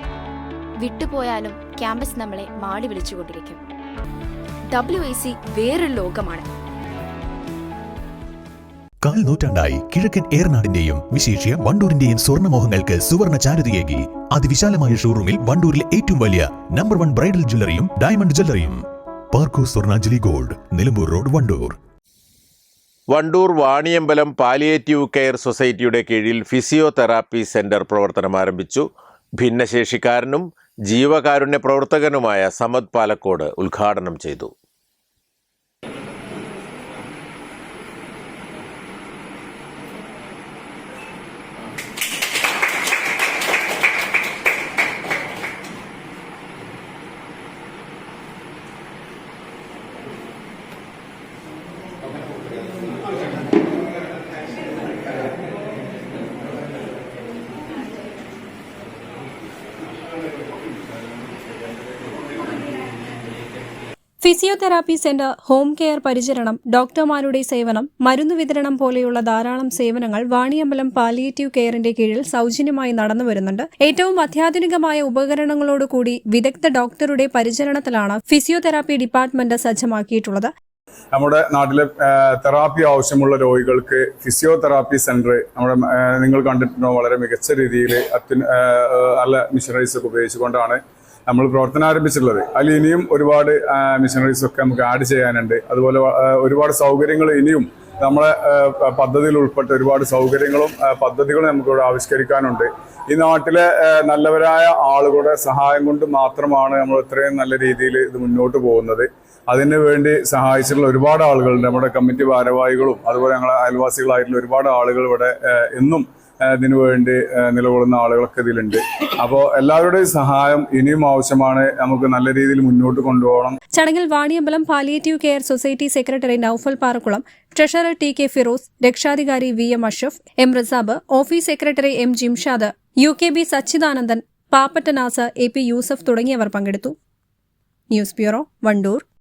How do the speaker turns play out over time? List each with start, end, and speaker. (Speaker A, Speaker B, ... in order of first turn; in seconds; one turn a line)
Speaker A: 0.8-3.6
Speaker A: 4.7-6.5
Speaker B: 9.0-21.8
Speaker C: 23.1-28.9
Speaker C: 29.4-34.5
Speaker D: 64.2-80.5
Speaker E: 81.1-123.6
Speaker D: 123.7-137.0
Speaker D: 137.9-139.1